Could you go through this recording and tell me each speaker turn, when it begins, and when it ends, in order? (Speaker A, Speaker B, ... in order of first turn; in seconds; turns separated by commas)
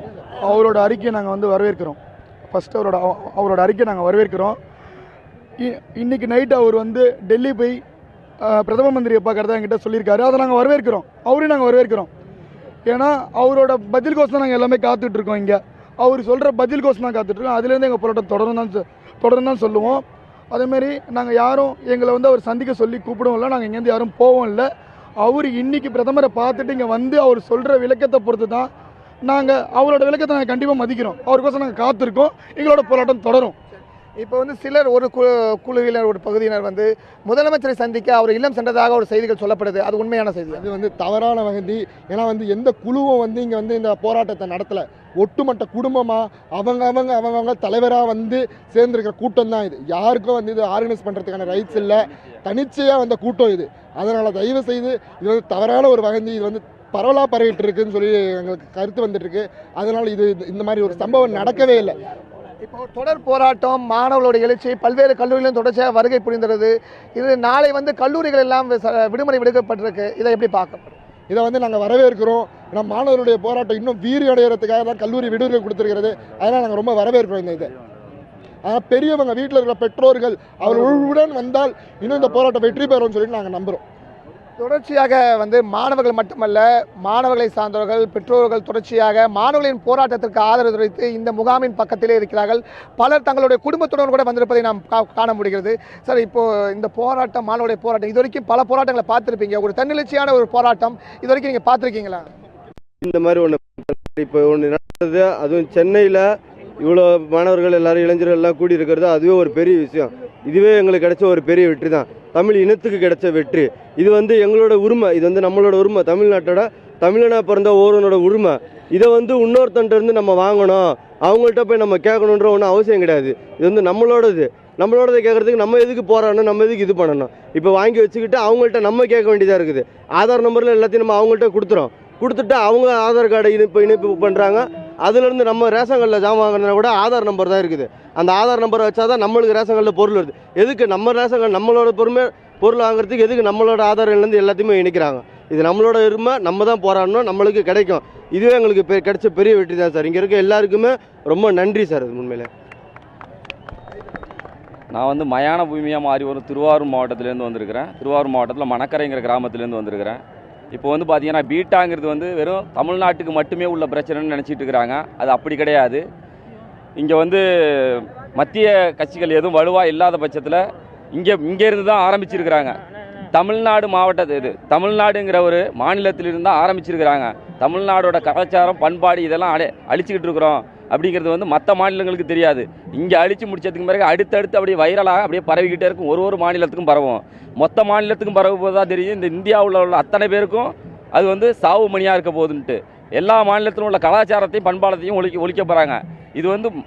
Speaker A: 0.4-4.6, Speaker A: 5.6-7.8, Speaker A: 8.4-12.1, Speaker A: 12.9-28.7, Speaker A: 29.2-33.5, Speaker B: 34.2-40.6, Speaker C: 40.5-62.0, Speaker B: 62.6-70.9, Speaker C: 71.3-77.7, Speaker C: 78.7-83.8, Speaker B: 84.6-102.3, Speaker D: 103.0-152.5, Speaker E: 154.9-160.2, Speaker E: 160.7-166.0, Speaker E: 166.9-172.8, Speaker E: 173.3-196.7